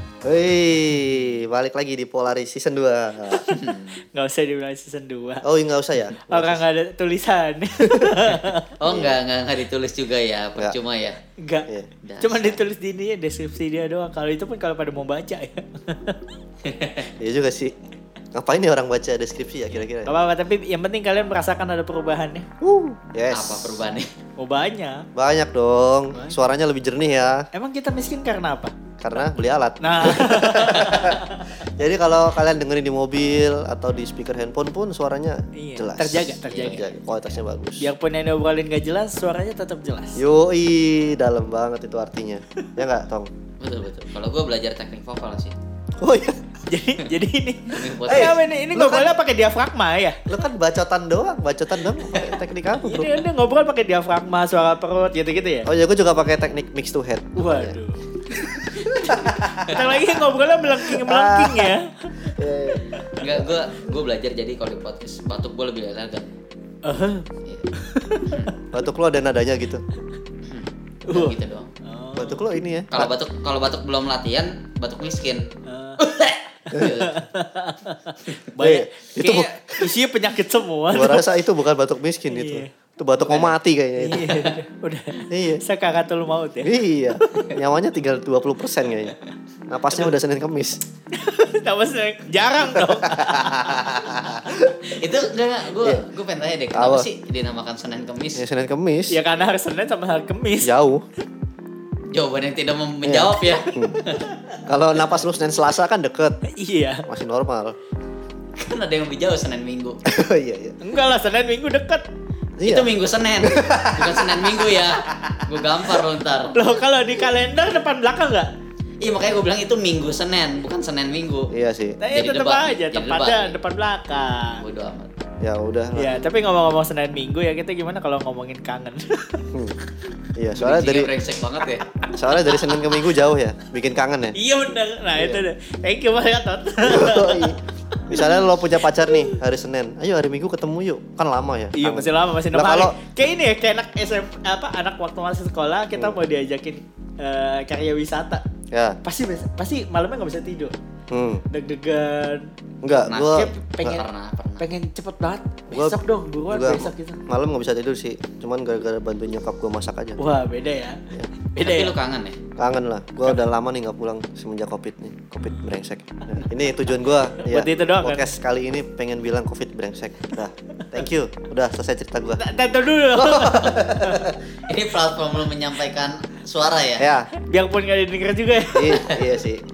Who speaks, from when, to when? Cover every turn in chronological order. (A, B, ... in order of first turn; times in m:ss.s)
0:00.2-0:03.4 A
0:03.4-0:05.4 B
0:03.4-0:04.0 C
0:05.4-0:06.6 A
0:06.2-0:08.7 B
0:07.8-0:08.3 A
0:08.8-0:11.2 C
0:08.8-0:09.2 A
0:11.4-0:11.7 B
0:12.0-0:12.6 C
0:12.2-0:16.3 B
0:16.6-0:17.1 C
0:17.2-0:17.8 A
0:18.3-0:20.2 A
0:20.0-0:22.5 B
0:22.6-0:23.8 A
0:23.3-0:24.1 C
0:24.4-0:25.0 B
0:25.1-0:27.5 A
0:27.5-0:28.7 B
0:29.0-0:37.9 A
0:29.8-0:31.5 B
0:35.5-0:36.9 B
0:36.4-0:36.8 C
0:37.8-0:40.2 B
0:40.2-0:43.3 A
0:43.6-0:45.6 C
0:46.0-0:46.4 A
0:46.7-0:50.2 B
0:47.7-0:48.4 C
0:48.1-0:49.1 A
0:50.3-0:53.2 A
0:52.8-0:55.7 B
0:55.6-0:57.8 A
0:57.4-0:58.0 B
0:58.3-1:00.2 A
0:58.8-1:03.0 B
1:00.8-1:01.7 A
1:02.2-1:03.6 A
1:03.2-1:06.3 C
1:06.8-1:08.5 B
1:08.3-1:08.6 C
1:08.7-1:09.8 A
1:10.4-1:11.7 C
1:11.1-1:12.4 B
1:12.2-1:13.1 A
1:12.9-1:15.5 C
1:15.6-1:16.0 B
1:16.0-1:17.2 C
1:16.7-1:21.3 B
1:18.6-1:19.9 A
1:20.9-1:24.5 A
1:22.3-1:27.5 B
1:25.3-1:25.6 A
1:26.6-1:29.1 A
1:29.7-1:30.8 A
1:31.1-1:33.9 B
1:32.7-1:34.9 A
1:34.9-1:38.4 C
1:35.8-1:36.0 A
1:36.7-1:37.1 A
1:38.4-1:39.2 A
1:39.1-1:40.7 B
1:40.6-1:41.0 A
1:42.1-1:44.3 C
1:43.0-1:44.0 A
1:44.6-1:46.4 A
1:46.4-1:47.0 B
1:47.1-1:47.8 A
1:48.6-1:50.0 C
1:50.0-1:50.8 A
1:50.8-1:52.0 B
1:52.6-1:55.4 A
1:52.6-1:56.6 C
1:56.5-1:58.5 B
1:59.0-2:01.5 C
2:01.5-2:02.0 A
2:02.0-2:04.6 B
2:02.1-2:03.6 C
2:04.6-2:05.1 C
2:05.4-2:06.2 A
2:05.9-2:09.5 B
2:10.4-2:11.1 A
2:10.6-2:11.9 C
2:11.8-2:13.0 B
2:12.1-2:14.4 A
2:14.3-2:19.3 B
2:15.2-2:15.4 A
2:16.8-2:23.0 A
2:21.7-2:28.4 B
2:28.7-2:29.0 A
2:29.0-2:30.7 B
2:31.1-2:31.4 A
2:31.5-2:32.5 B
2:32.8-2:34.0 A
2:33.1-2:34.7 C
2:33.3-2:34.0 B
2:34.6-2:37.2 B
2:35.7-2:40.2 A
2:40.2-2:41.9 B
2:41.6-2:42.4 C
2:42.6-2:52.5 A
2:45.4-2:45.7 B
2:47.4-2:48.3 B
2:52.4-2:54.3 B
2:53.1-2:54.4 A
2:54.7-2:57.1 C
2:57.0-2:57.3 A
2:57.4-2:59.1 B
2:58.7-2:59.6 A